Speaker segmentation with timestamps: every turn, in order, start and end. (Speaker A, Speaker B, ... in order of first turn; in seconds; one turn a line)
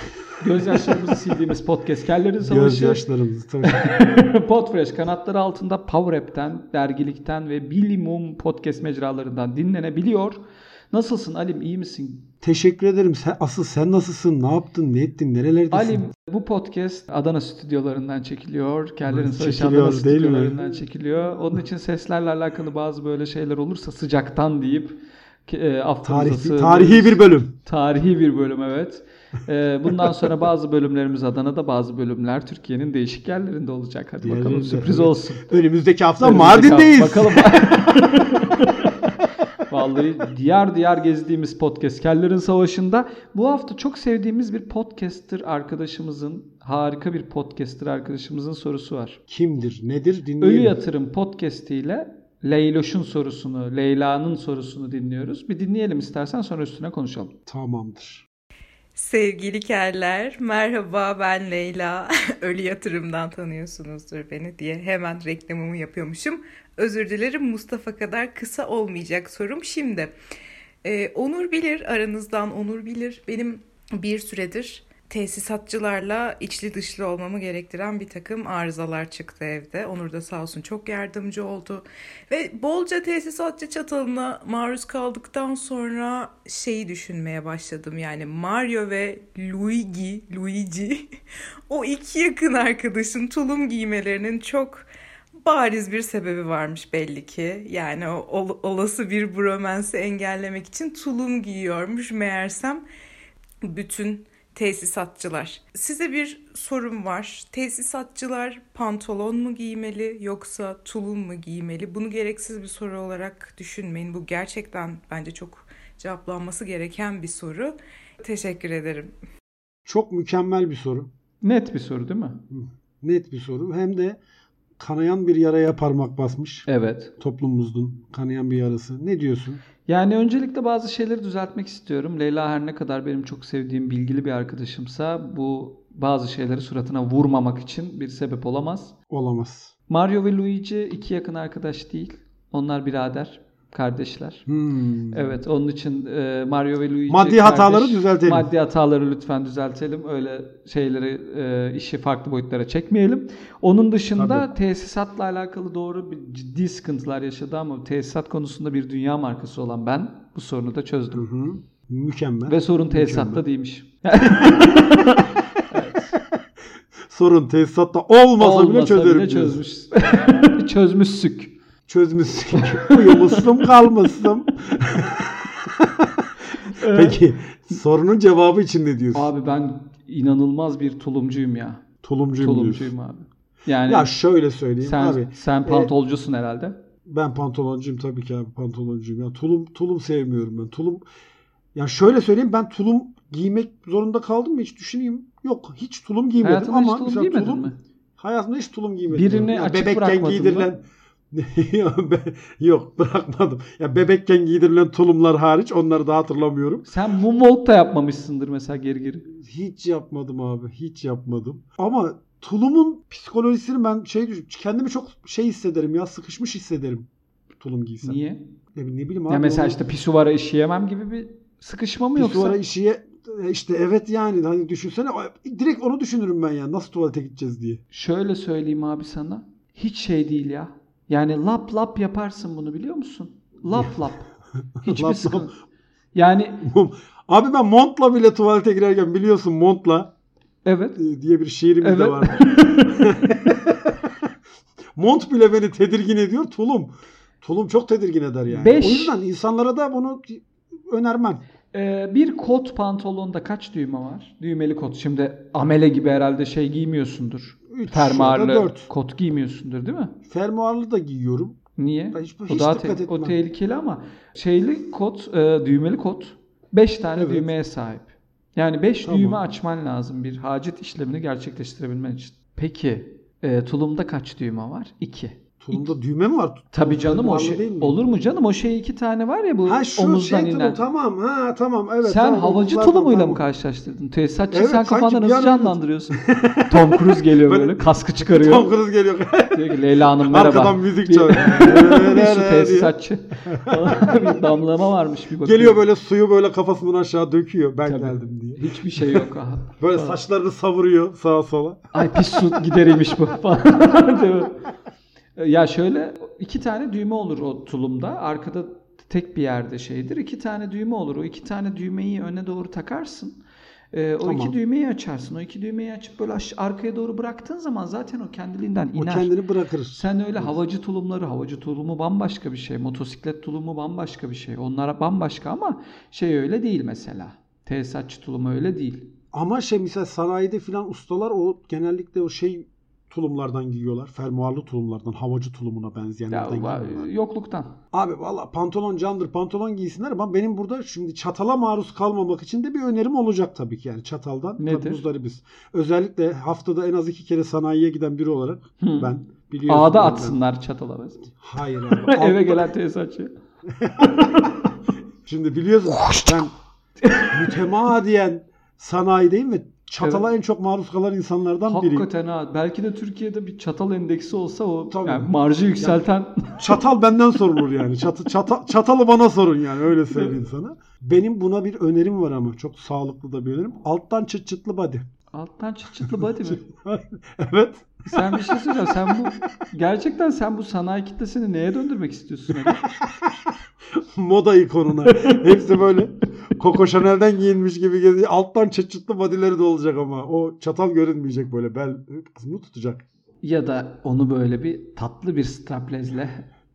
Speaker A: 0.4-3.0
Speaker B: 2.4-3.9
Speaker A: 3.6-10.4
Speaker A: 10.9-12.3
Speaker B: 12.4-16.0
Speaker A: 15.7-35.6
Speaker B: 19.1-20.8
Speaker B: 26.0-27.5
Speaker B: 34.2-38.0
Speaker A: 36.2-49.2
Speaker B: 49.3-50.8
Speaker A: 50.4-57.3
Speaker B: 57.5-58.2
Speaker C: 59.0-70.1
Speaker C: 70.8-91.0
Speaker C: 91.7-94.8
Speaker C: 95.4-102.8
Speaker C: 103.6-119.1
Speaker B: 119.8-121.1
Speaker A: 121.4-122.4
Speaker B: 122.5-124.2
Speaker B: 124.8-126.7
Speaker A: 126.7-127.1
Speaker B: 127.2-129.6
Speaker A: 129.9-138.9
Speaker B: 139.1-139.7
Speaker A: 139.9-144.4
Speaker B: 144.5-145.3
Speaker A: 145.1-161.2
Speaker B: 147.1-148.5
Speaker B: 154.1-154.5
Speaker B: 161.1-163.4
Speaker A: 162.4-166.1
Speaker B: 167.1-169.6
Speaker A: 168.4-171.5
Speaker B: 171.9-176.3
Speaker A: 172.6-173.7
Speaker A: 176.6-177.2
Speaker B: 176.8-179.3
Speaker A: 179.1-181.8
Speaker B: 182.0-182.9
Speaker A: 182.4-184.1
Speaker B: 183.9-185.9
Speaker A: 184.8-186.8
Speaker B: 187.1-191.0
Speaker B: 191.7-206.9
Speaker A: 196.4-197.8
Speaker A: 199.1-200.7
Speaker A: 206.8-209.3
Speaker B: 209.3-217.1
Speaker B: 217.6-218.2
Speaker A: 218.0-218.4
Speaker B: 218.7-219.8
Speaker A: 219.3-222.6
Speaker B: 222.2-227.8
Speaker A: 227.9-234.3
Speaker B: 234.8-235.5
Speaker A: 234.8-235.5
Speaker A: 236.1-236.6
Speaker B: 236.6-240.1
Speaker A: 240.6-241.0
Speaker B: 241.0-244.0
Speaker A: 241.8-243.1
Speaker B: 244.9-251.4
Speaker A: 248.5-249.1
Speaker A: 251.7-260.1
Speaker B: 257.7-258.9
Speaker B: 260.3-261.6
Speaker A: 261.8-275.9
Speaker B: 262.1-263.4
Speaker B: 267.1-267.5
Speaker B: 269.0-269.4
Speaker B: 275.6-278.0
Speaker A: 276.7-280.8
Speaker B: 279.6-283.4
Speaker A: 282.0-288.7
Speaker B: 284.5-292.9
Speaker A: 289.5-295.8
Speaker B: 293.4-294.4
Speaker B: 295.4-299.2
Speaker A: 297.9-300.2
Speaker B: 299.8-303.2
Speaker A: 301.9-304.6
Speaker A: 305.4-313.4
Speaker A: 313.9-319.3
Speaker B: 314.2-314.5
Speaker B: 318.9-320.6
Speaker A: 319.9-329.1
Speaker B: 329.3-337.1
Speaker A: 336.3-337.8
Speaker B: 337.9-350.4
Speaker A: 344.6-345.0
Speaker A: 348.8-349.1
Speaker A: 349.7-351.3
Speaker B: 351.4-352.7
Speaker A: 351.9-353.3
Speaker B: 353.7-354.5
Speaker A: 354.0-354.6
Speaker B: 355.2-356.5
Speaker A: 356.0-356.4
Speaker A: 357.0-357.5
Speaker B: 357.3-362.1
Speaker A: 361.6-366.7
Speaker B: 364.9-366.0
Speaker B: 366.6-375.0
Speaker A: 375.3-376.7
Speaker B: 376.0-379.5
Speaker A: 378.1-382.9
Speaker B: 382.8-393.0
Speaker A: 385.0-385.5
Speaker A: 393.4-396.5